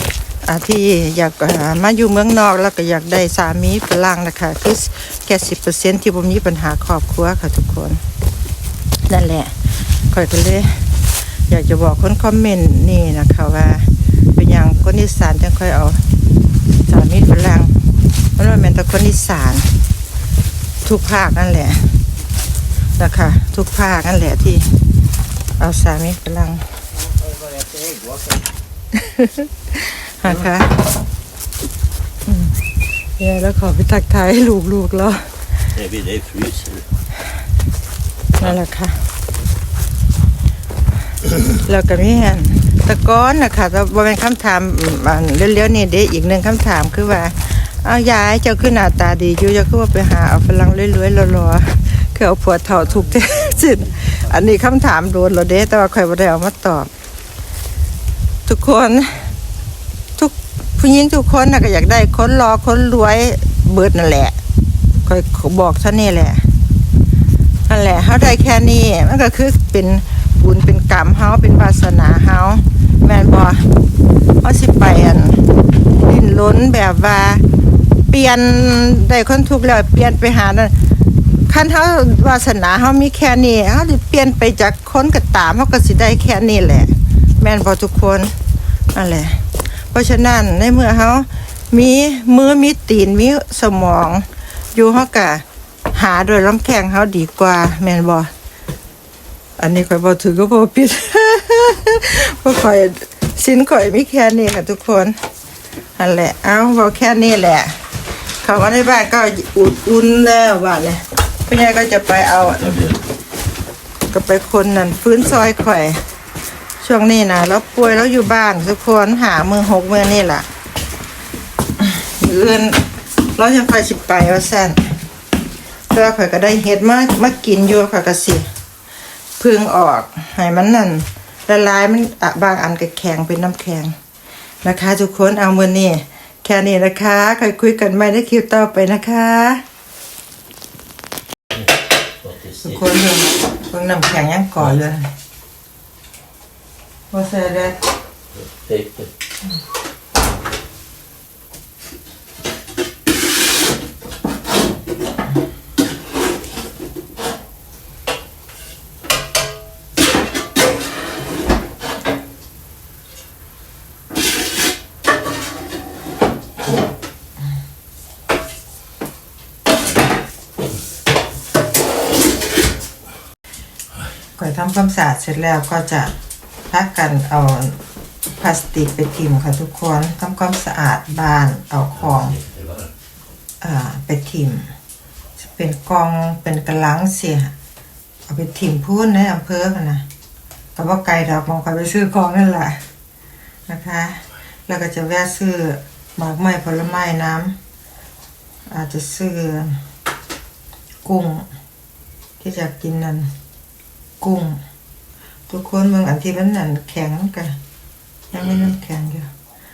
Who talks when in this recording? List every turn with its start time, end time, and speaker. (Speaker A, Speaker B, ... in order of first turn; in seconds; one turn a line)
Speaker A: 0.4-8.0
Speaker A: 9.1-10.9
Speaker A: 11.5-16.0
Speaker A: 16.9-17.7
Speaker A: 18.4-19.7
Speaker A: 20.8-21.9
Speaker A: 23.0-24.7
Speaker A: 25.6-26.7
Speaker B: 26.9-28.6
Speaker A: 28.9-30.8
Speaker A: 32.3-32.6
Speaker A: 33.2-35.3
Speaker B: 35.8-36.9
Speaker A: 38.4-39.0
Speaker A: 41.5-56.9
Speaker B: 52.8-54.5
Speaker A: 58.5-59.3
Speaker A: 60.2-64.4
Speaker A: 65.0-66.5
Speaker A: 67.7-73.7
Speaker A: 74.4-75.4
Speaker A: 76.0-77.4
Speaker A: 78.1-80.7
Speaker A: 81.5-88.3
Speaker A: 88.9-98.3
Speaker A: 99.6-105.1
Speaker A: 106.0-107.8
Speaker A: 108.4-112.9
Speaker B: 112.5-113.0
Speaker A: 114.1-116.0
Speaker A: 116.8-120.5
Speaker A: 121.8-125.0
Speaker A: 125.9-128.5
Speaker A: 129.4-133.9
Speaker A: 134.6-139.6
Speaker B: 141.5-142.8
Speaker A: 142.6-145.1
Speaker A: 147.1-147.8
Speaker B: 148.3-149.1
Speaker A: 174.4-176.2
Speaker A: 176.7-177.8
Speaker A: 178.3-182.4
Speaker B: 182.0-182.9
Speaker A: 183.6-184.7
Speaker A: 185.4-187.5
Speaker A: 188.3-190.1
Speaker A: 190.8-192.8
Speaker A: 193.7-197.6
Speaker A: 198.7-199.8
Speaker A: 201.1-201.5
Speaker A: 202.4-203.3
Speaker A: 204.2-204.6
Speaker A: 205.5-207.6
Speaker A: 208.3-209.3